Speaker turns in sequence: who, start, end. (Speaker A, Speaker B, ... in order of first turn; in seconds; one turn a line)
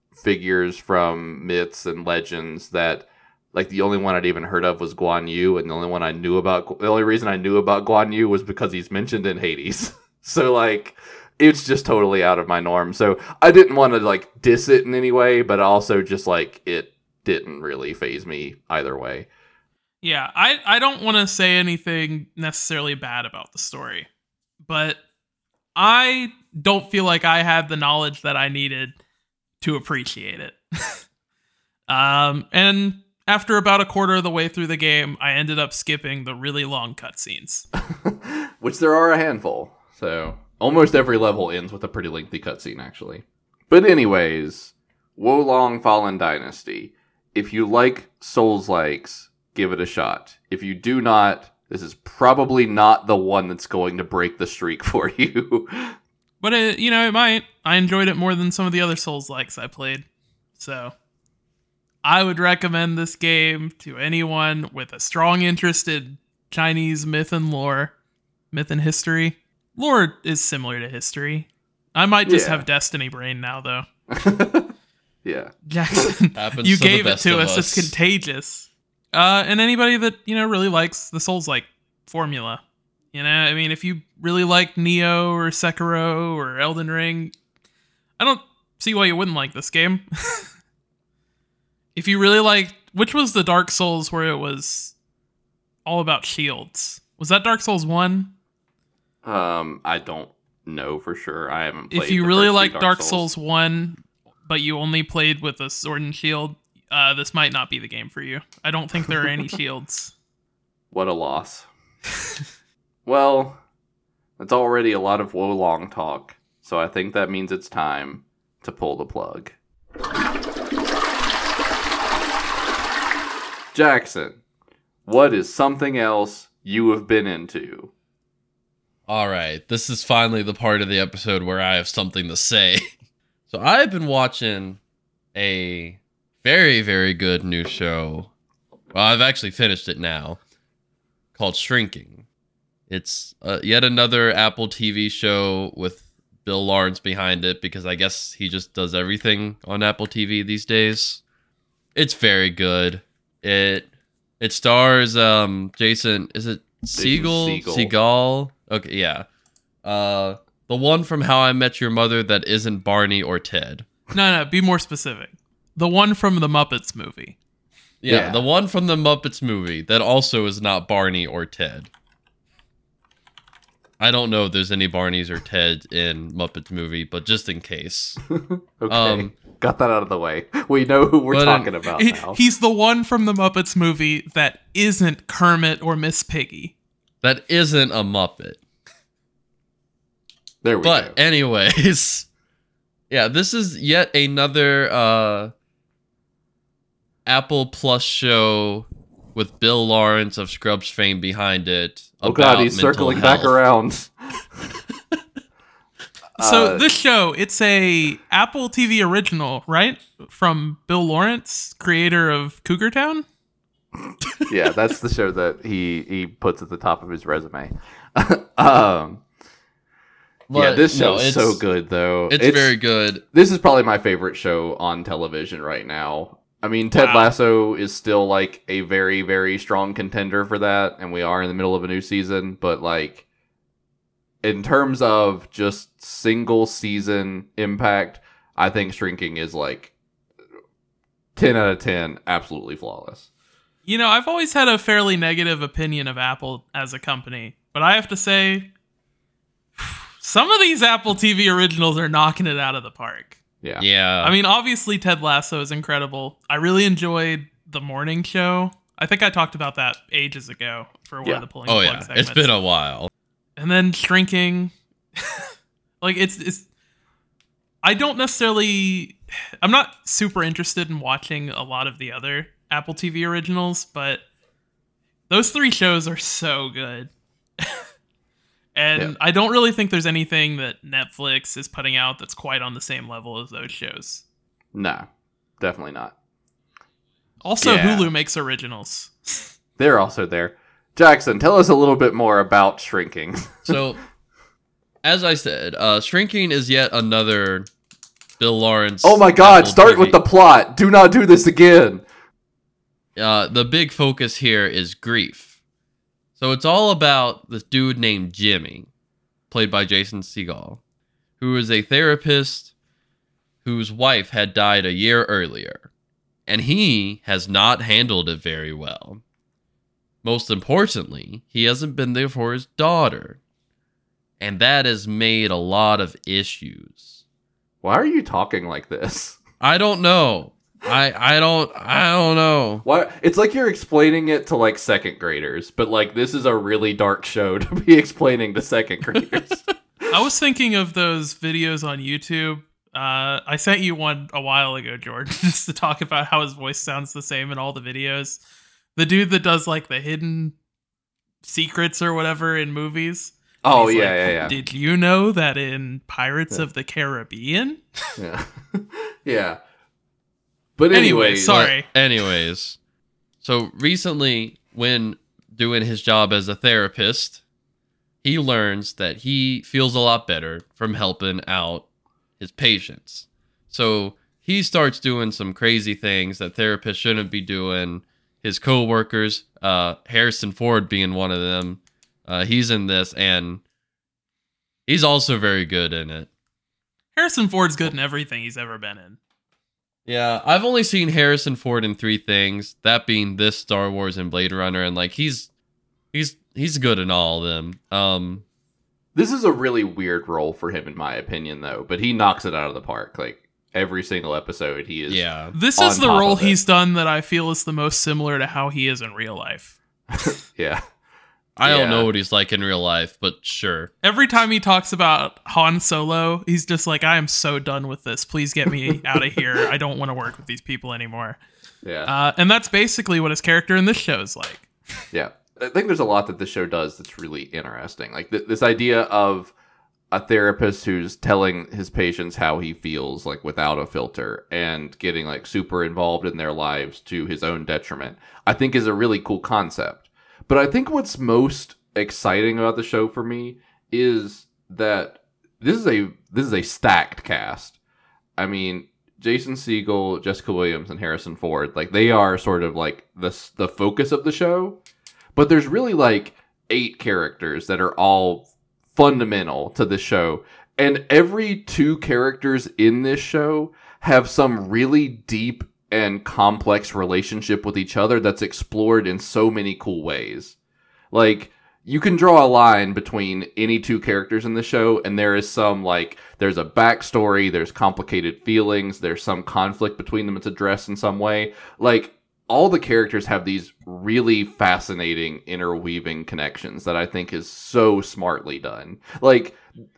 Speaker A: 0.2-19.3
Speaker B: 20.0-24.1
Speaker B: 24.6-25.0
Speaker B: 25.8-28.9
Speaker B: 29.6-31.0
Speaker B: 31.9-37.6
Speaker A: 38.0-55.9
Speaker B: 56.4-60.0
Speaker B: 60.6-60.9
Speaker B: 62.0-67.9
Speaker B: 68.5-73.8
Speaker A: 72.2-72.6
Speaker A: 74.1-74.7
Speaker A: 75.2-76.1
Speaker B: 75.7-82.6
Speaker C: 76.3-77.9
Speaker B: 83.1-87.3
Speaker B: 88.2-90.5
Speaker B: 91.9-94.9
Speaker B: 95.8-98.3
Speaker A: 99.2-103.3
Speaker B: 101.9-110.1
Speaker A: 110.9-111.7
Speaker A: 113.0-113.6
Speaker A: 114.4-119.5
Speaker A: 123.7-124.4
Speaker A: 125.0-127.9
Speaker C: 129.1-132.9
Speaker C: 133.5-134.8
Speaker C: 135.3-138.3
Speaker C: 138.9-140.4
Speaker C: 141.3-142.2
Speaker C: 142.9-151.2
Speaker C: 151.9-153.9
Speaker C: 154.4-159.2
Speaker A: 156.9-157.9
Speaker C: 159.8-163.9
Speaker B: 164.1-167.3
Speaker C: 168.0-171.9
Speaker A: 168.1-168.4
Speaker C: 174.0-178.2
Speaker A: 178.3-182.4
Speaker C: 178.9-179.3
Speaker C: 181.3-181.7
Speaker B: 181.9-186.7
Speaker C: 187.2-188.6
Speaker A: 190.6-191.1
Speaker C: 190.8-192.3
Speaker C: 193.1-195.5
Speaker C: 197.2-203.6
Speaker A: 202.2-204.1
Speaker A: 206.4-206.8
Speaker B: 206.4-213.2
Speaker A: 214.5-219.2
Speaker C: 220.5-221.6
Speaker A: 220.5-222.8
Speaker C: 222.3-223.2
Speaker A: 223.3-233.2
Speaker B: 226.9-227.3
Speaker A: 234.4-239.9
Speaker A: 241.3-243.3
Speaker B: 243.8-248.7
Speaker B: 249.8-253.4
Speaker C: 253.8-254.3
Speaker B: 254.2-262.5
Speaker C: 261.6-263.1
Speaker B: 263.6-265.5
Speaker B: 266.0-266.6
Speaker B: 267.8-274.2
Speaker B: 275.3-277.8
Speaker B: 278.8-284.2
Speaker A: 284.7-285.1
Speaker A: 285.6-286.1
Speaker B: 287.4-289.5
Speaker A: 287.6-288.1
Speaker A: 289.8-293.8
Speaker C: 293.6-294.0
Speaker C: 295.0-297.7
Speaker C: 298.4-300.2
Speaker A: 299.0-302.0
Speaker C: 303.1-305.5
Speaker C: 306.4-308.9
Speaker C: 309.5-310.8
Speaker C: 311.4-312.7
Speaker C: 313.6-315.9
Speaker C: 316.5-319.2
Speaker C: 320.2-323.4
Speaker C: 324.4-327.2
Speaker A: 327.8-329.4
Speaker C: 329.6-332.8
Speaker A: 332.8-339.6
Speaker B: 340.1-348.4
Speaker B: 348.9-350.5
Speaker B: 351.4-357.8
Speaker A: 353.6-354.6
Speaker A: 358.2-359.6
Speaker A: 360.8-361.6
Speaker B: 360.9-361.9
Speaker C: 361.5-362.8
Speaker C: 363.4-367.4
Speaker C: 368.2-371.8
Speaker C: 372.4-383.6
Speaker C: 384.9-386.3
Speaker B: 387.1-389.2
Speaker C: 390.1-395.5
Speaker C: 396.1-398.4
Speaker A: 399.1-406.6
Speaker C: 405.1-405.5
Speaker B: 405.5-410.2
Speaker A: 410.1-410.8
Speaker C: 411.6-413.9
Speaker A: 411.6-412.1
Speaker B: 414.0-421.4
Speaker A: 421.8-422.1
Speaker B: 422.1-424.7
Speaker A: 425.1-429.5
Speaker A: 430.1-447.8
Speaker A: 448.4-454.8
Speaker A: 455.4-470.6
Speaker A: 471.1-489.6